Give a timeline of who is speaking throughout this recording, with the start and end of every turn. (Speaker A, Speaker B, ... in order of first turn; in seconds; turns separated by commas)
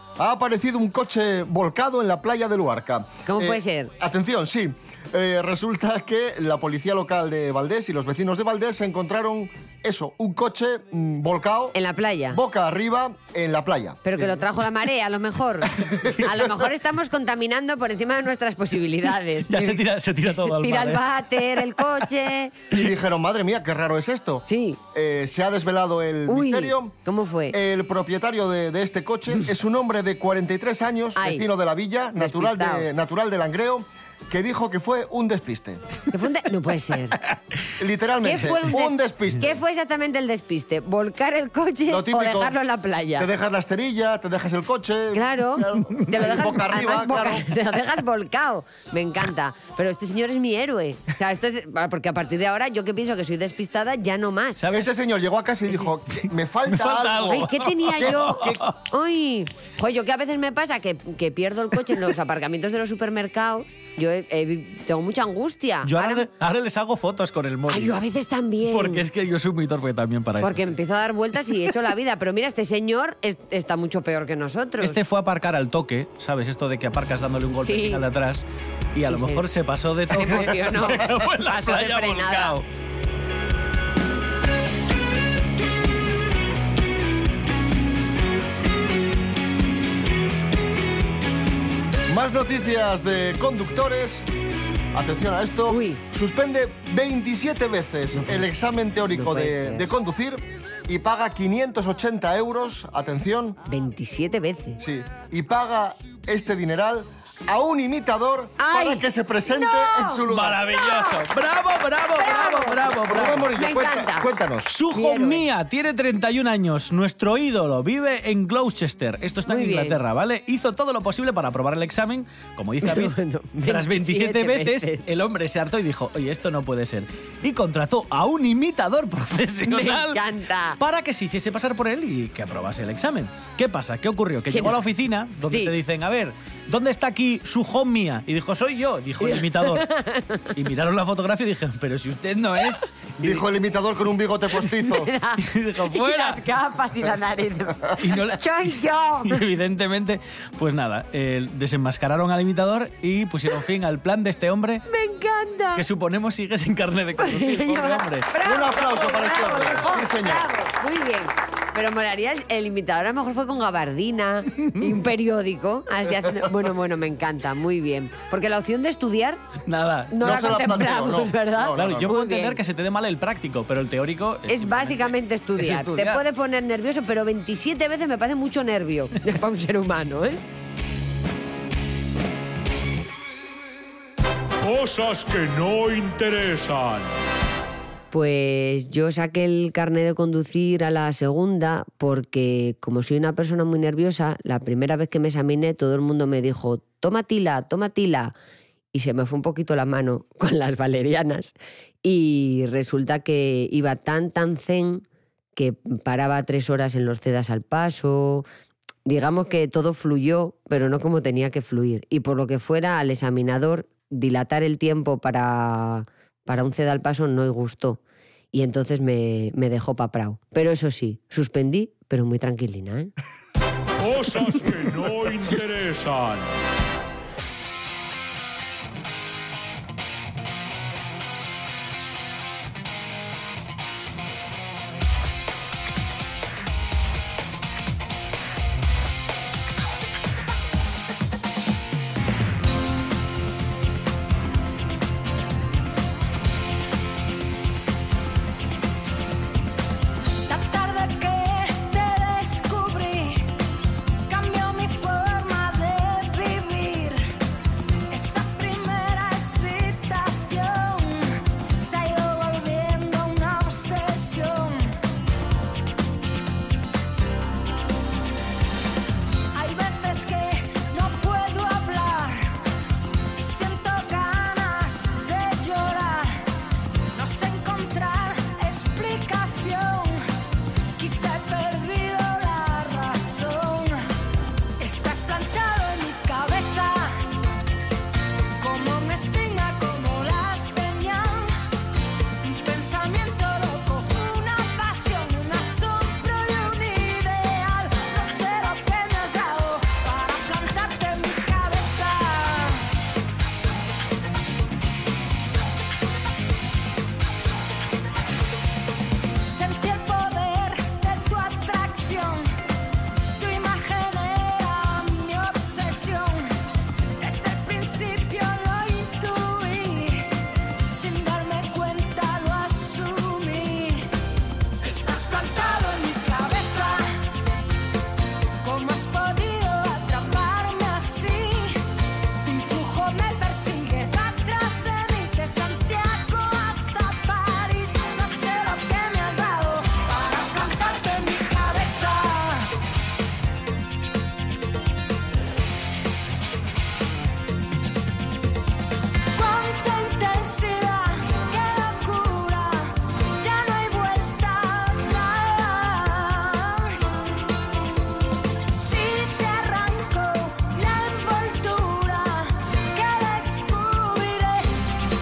Speaker A: 0.2-11.8, Speaker B: 3.2-3.9, Speaker B: 11.7-12.4, Speaker A: 12.3-14.3, Speaker B: 14.0-19.5, Speaker A: 15.7-16.6, Speaker C: 19.5-21.0, Speaker B: 20.5-22.5, Speaker A: 22.7-26.9, Speaker B: 24.5-24.8, Speaker B: 26.3-27.6, Speaker A: 27.5-35.8, Speaker B: 31.1-31.5, Speaker B: 32.2-32.9, Speaker B: 36.1-37.2, Speaker A: 37.8-39.6, Speaker B: 38.2-43.3, Speaker A: 41.9-42.6, Speaker A: 43.2-47.5, Speaker B: 45.1-54.6, Speaker C: 54.6-54.9, Speaker A: 54.7-58.7, Speaker C: 56.7-58.7, Speaker B: 57.3-66.3, Speaker C: 65.8-68.0, Speaker B: 67.7-69.0, Speaker C: 68.6-70.7, Speaker B: 70.4-75.0, Speaker C: 74.8-82.6, Speaker B: 77.5-78.1, Speaker B: 79.1-79.5, Speaker B: 80.1-82.6, Speaker A: 92.1-94.3, Speaker A: 94.9-103.6, Speaker B: 95.7-96.0, Speaker B: 98.1-98.5, Speaker B: 99.1-99.8, Speaker B: 103.7-104.8, Speaker A: 104.8-110.7, Speaker B: 108.6-110.2, Speaker C: 110.3-113.5, Speaker B: 110.7-111.2, Speaker B: 112.2-114.3, Speaker A: 113.1-114.7, Speaker C: 114.7-130.2, Speaker B: 114.9-115.4, Speaker B: 119.5-120.0, Speaker B: 122.8-125.2, Speaker B: 129.7-130.8, Speaker C: 130.8-139.9, Speaker B: 134.5-134.8, Speaker B: 135.5-135.7, Speaker B: 139.2-140.5, Speaker C: 140.5-143.4, Speaker A: 143.2-145.1, Speaker B: 144.7-149.4, Speaker C: 145.4-146.5, Speaker C: 148.0-154.8, Speaker B: 154.9-155.8, Speaker C: 155.8-158.3, Speaker B: 157.2-169.4, Speaker A: 158.4-160.5, Speaker C: 169.7-170.8, Speaker B: 170.1-172.6, Speaker A: 170.2-172.1, Speaker C: 171.7-176.2, Speaker B: 174.5-180.4, Speaker D: 184.6-187.1, Speaker B: 188.1-198.3, Speaker B: 198.9-205.0, Speaker B: 205.6-208.4, Speaker B: 209.1-218.0, Speaker B: 218.5-223.1, Speaker D: 224.0-226.5, Speaker E: 250.3-253.4, Speaker E: 254.3-257.3, Speaker E: 258.1-264.9, Speaker E: 269.5-272.5, Speaker E: 273.4-276.4, Speaker E: 277.1-280.2, Speaker E: 280.9-284.0, Speaker E: 284.8-287.1, Speaker E: 288.6-291.5, Speaker E: 292.4-302.8, Speaker E: 309.4-312.5, Speaker E: 313.4-316.5, Speaker E: 317.2-320.2, Speaker E: 320.8-324.1, Speaker E: 324.8-327.1, Speaker E: 328.6-331.8, Speaker E: 332.4-342.7, Speaker E: 349.3-357.2, Speaker E: 358.7-364.7